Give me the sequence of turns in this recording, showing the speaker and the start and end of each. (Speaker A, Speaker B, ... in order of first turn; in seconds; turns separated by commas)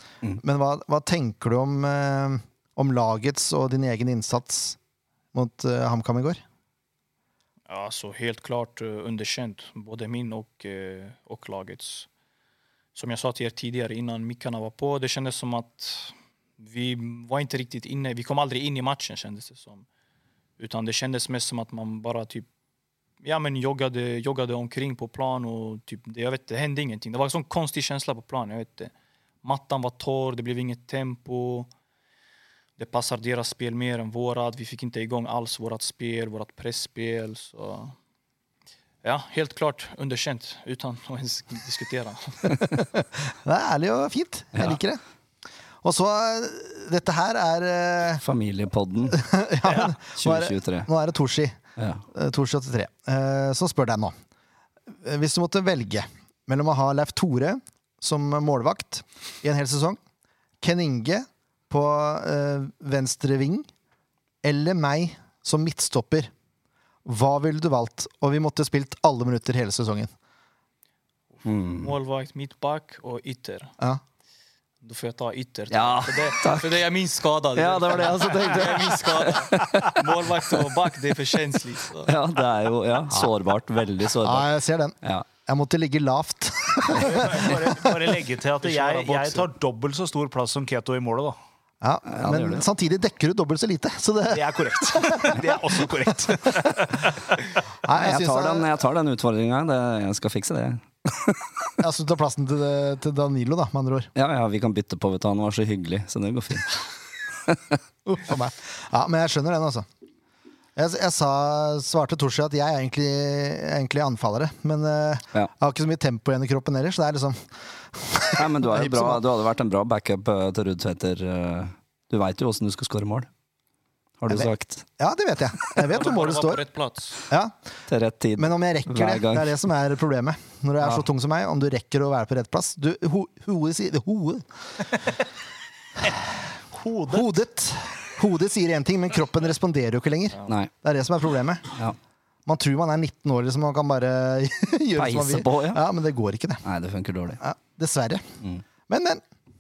Speaker A: 0.4-4.8, Speaker A: 5.3-6.4, Speaker B: 7.7-12.1, Speaker B: 12.9-19.9, Speaker B: 20.6-22.5, Speaker B: 23.2-28.9, Speaker B: 29.4-31.7, Speaker B: 32.8-38.0, Speaker B: 39.0-42.6, Speaker A: 42.6-45.0, Speaker C: 44.5-44.8, Speaker A: 45.8-48.2, Speaker C: 48.2-49.2, Speaker A: 49.1-51.6, Speaker C: 50.0-50.9, Speaker C: 51.8-52.0, Speaker A: 52.1-54.1, Speaker A: 54.9-60.0, Speaker A: 60.6-63.7, Speaker A: 64.4-66.3, Speaker A: 67.0-70.1, Speaker B: 71.4-73.7, Speaker C: 71.5-71.9, Speaker B: 74.8-82.1, Speaker C: 75.7-76.8, Speaker C: 77.5-80.0, Speaker C: 82.1-84.5, Speaker A: 84.1-88.0, Speaker D: 86.9-91.4, Speaker B: 88.6-89.5, Speaker A: 91.8-95.8, Speaker C: 92.1-92.7, Speaker D: 94.3-97.2, Speaker A: 97.8-98.7, Speaker C: 97.9-101.7, Speaker A: 101.8-104.1, Speaker C: 104.2-106.8, Speaker C: 107.5-107.8, Speaker A: 108.1-109.9, Speaker A: 110.8-117.4, Speaker A: 117.9-119.2, Speaker C: 118.4-123.3, Speaker C: 124.2-124.9, Speaker A: 124.3-126.6, Speaker B: 125.9-127.2, Speaker A: 127.3-127.5, Speaker C: 127.9-129.6, Speaker A: 128.4-134.5, Speaker D: 136.7-137.3, Speaker A: 137.1-141.7, Speaker A: 142.5-146.6, Speaker C: 145.0-145.8, Speaker C: 146.7-147.4, Speaker A: 147.4-148.3, Speaker A: 148.9-149.2